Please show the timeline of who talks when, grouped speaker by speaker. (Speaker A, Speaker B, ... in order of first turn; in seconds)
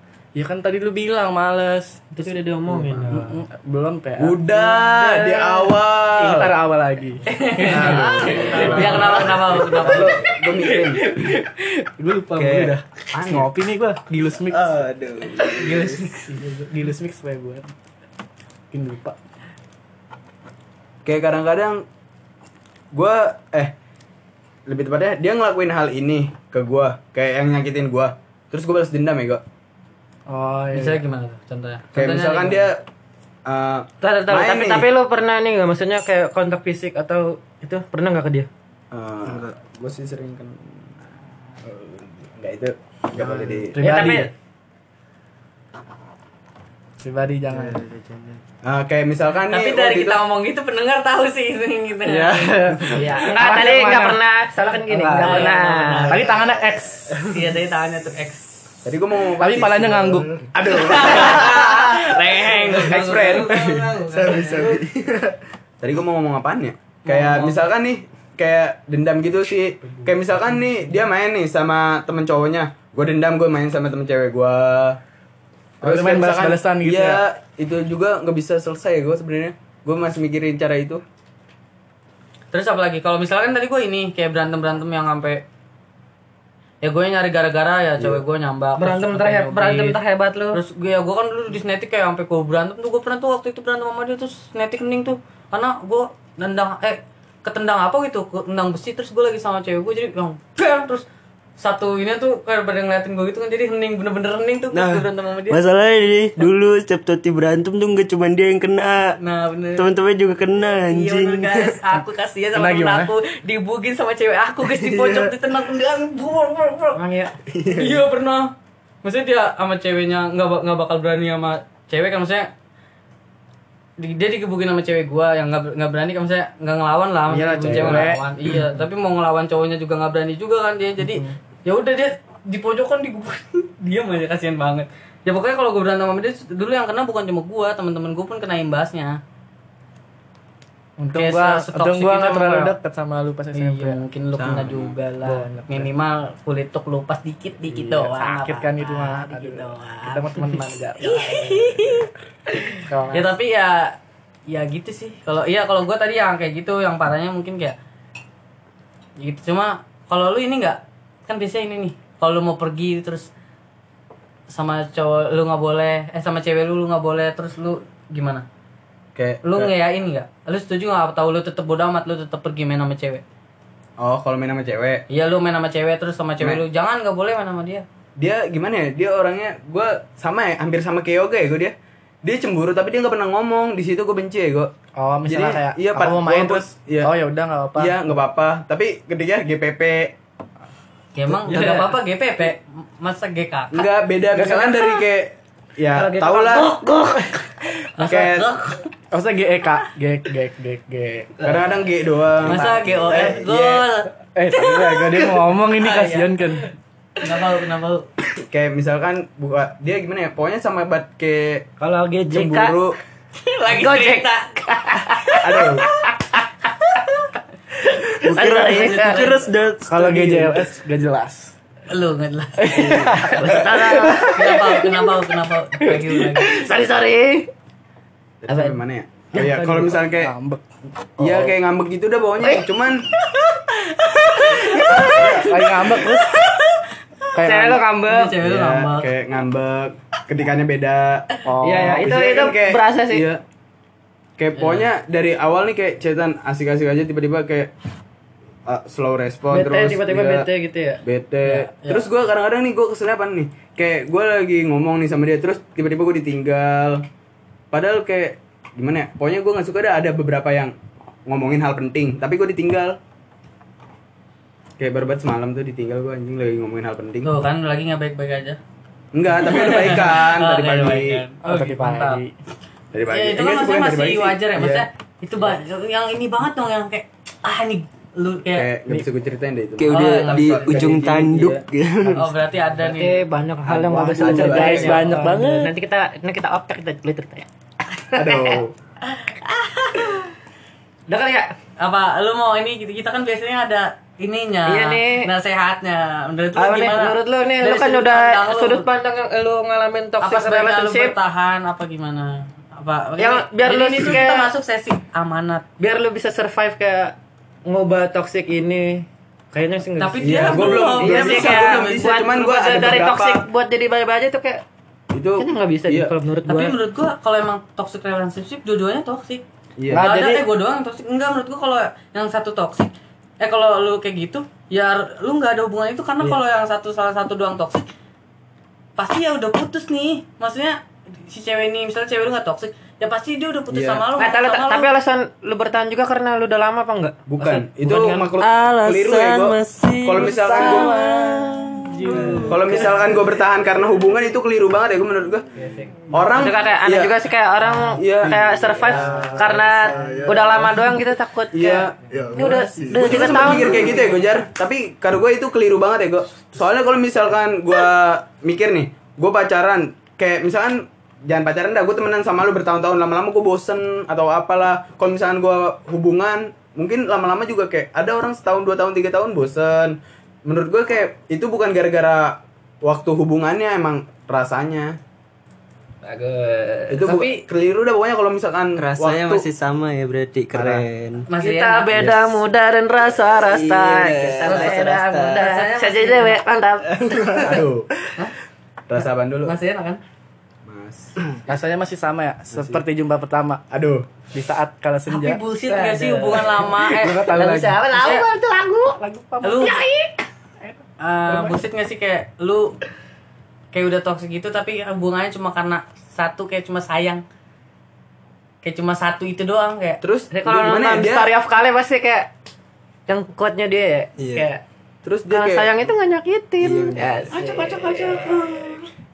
Speaker A: 0.3-2.1, 2.6-14.8, 16.3-17.7, 18.7-19.2, 30.3-31.0, 43.1-44.3, 47.0-47.8, 52.1-54.2, 54.9-55.5, 56.1-57.4, 59.4-60.5, 69.8-71.0, 75.8-77.2, 112.5-113.1, 127.3-128.8, 131.0-131.3, 141.0-144.0, 145.2-145.9, 147.7-152.1, 152.8-153.3, 185.0-188.2, 194.3-194.7, 199.1-201.4, 204.3-206.7, 219.9-221.5, 222.6-223.8, 230.1-230.7, 231.2-231.5, 235.2-236.4, 237.3-237.8, 241.4-242.1, 271.4-272.3, 283.7-285.7, 319.9-320.4, 340.2-343.1, 348.9-350.7, 352.1-353.6, 391.4-393.6, 394.3-395.4, 396.8-397.8, 399.0-399.7, 400.6-401.6
Speaker B: 2.1-3.4, 34.0-38.5, 43.8-44.3, 52.9-56.2, 88.8-90.6, 116.9-117.3, 191.5-191.9, 195.9-197.5, 205.8-206.2, 211.8-212.8, 213.7-217.0, 218.0-219.2, 223.1-225.1, 225.8-227.5, 228.5-228.8, 229.3-229.8, 234.2-235.4, 237.4-238.3, 241.6-243.2, 249.5-251.0, 282.9-287.5, 288.1-288.6, 291.1-291.5, 294.7-295.3, 296.6-301.1, 303.2-304.5, 305.8-314.6, 315.4-316.8, 334.2-338.3, 342.1-342.6, 346.3-353.9, 376.0-377.1, 381.4-387.4, 395.6-400.2, 410.3-412.3, 413.1-414.6, 415.3-418.7
Speaker C: 4.2-6.5, 7.7-11.0, 13.1-13.5, 21.0-21.8, 22.9-23.7, 24.7-29.4, 31.9-32.8, 33.5-34.9, 38.9-43.8, 48.6-50.2, 52.7-53.1, 58.8-64.8, 65.8-75.0, 75.8-81.0, 88.0-88.2, 127.6-128.1, 144.4-144.9, 169.1-169.7, 174.0-175.0, 178.2-184.7, 185.2-187.1, 187.8-190.1, 193.7-196.7, 198.0-198.5, 201.4-203.8, 208.5-211.7, 212.3-213.0, 215.4-215.8, 222.8-223.3, 228.4-230.3, 231.2-233.0, 235.0-235.5, 238.4-243.4, 244.4-247.7, 248.7-250.5, 251.0-257.0, 257.7-260.7, 261.2-263.0, 264.8-267.3, 269.1-271.2, 272.9-274.9, 278.5-281.6, 283.7-285.2, 288.1-288.7, 310.2-313.4, 315.1-316.1, 319.8-320.4, 333.7-334.0, 337.3-341.0, 342.5-345.4, 346.1-347.2, 347.9-349.4, 351.5-374.9, 376.9-379.4, 380.5-380.9, 387.4-387.9, 388.9-389.5, 390.6-391.1, 392.5-392.8, 393.7-394.1, 410.0-411.3, 415.0-415.8
Speaker D: 7.3-10.1, 15.4-16.2, 30.7-32.7, 49.5-52.6, 55.1-56.3, 57.3-58.5, 60.6-64.8, 67.2-67.4, 82.5-85.4, 86.8-90.0, 90.5-101.0, 101.6-105.6, 109.2-109.9, 110.9-117.0, 117.6-122.5, 124.0-139.2, 141.1-142.8, 143.5-153.9, 154.5-157.8, 159.2-163.3, 164.5-168.4, 169.4-173.2, 175.1-177.8, 191.2-193.9, 197.9-198.9, 202.4-204.1, 205.8-206.3, 207.2-208.1, 213.4-215.4, 218.3-219.5, 221.9-226.6, 233.7-239.1, 244.6-244.9, 251.4-252.1, 267.2-268.6, 269.4-272.2, 273.1-278.7, 279.9-280.9, 282.1-283.2, 284.7-285.2, 289.1-290.3, 291.8-298.9, 300.2-305.6, 310.0-312.1, 316.5-319.4, 320.0-327.9, 329.0-334.9, 377.1-377.4, 381.3-381.9, 384.4-386.4, 389.4-390.0, 395.1-398.2, 399.4-399.8, 401.0-402.7, 403.7-407.2, 408.6-410.0, 417.3-418.8
Speaker E: 12.3-12.8, 14.5-16.0, 39.2-39.5, 47.5-48.4, 64.2-65.3, 104.7-109.2, 109.8-111.8, 114.9-115.2, 117.5-117.8, 191.5-191.8, 218.2-220.6, 279.8-282.2, 338.4-342.6, 378.8-381.3, 382.0-382.4, 383.4-385.5, 386.9-387.5, 414.2-414.5, 416.6-417.4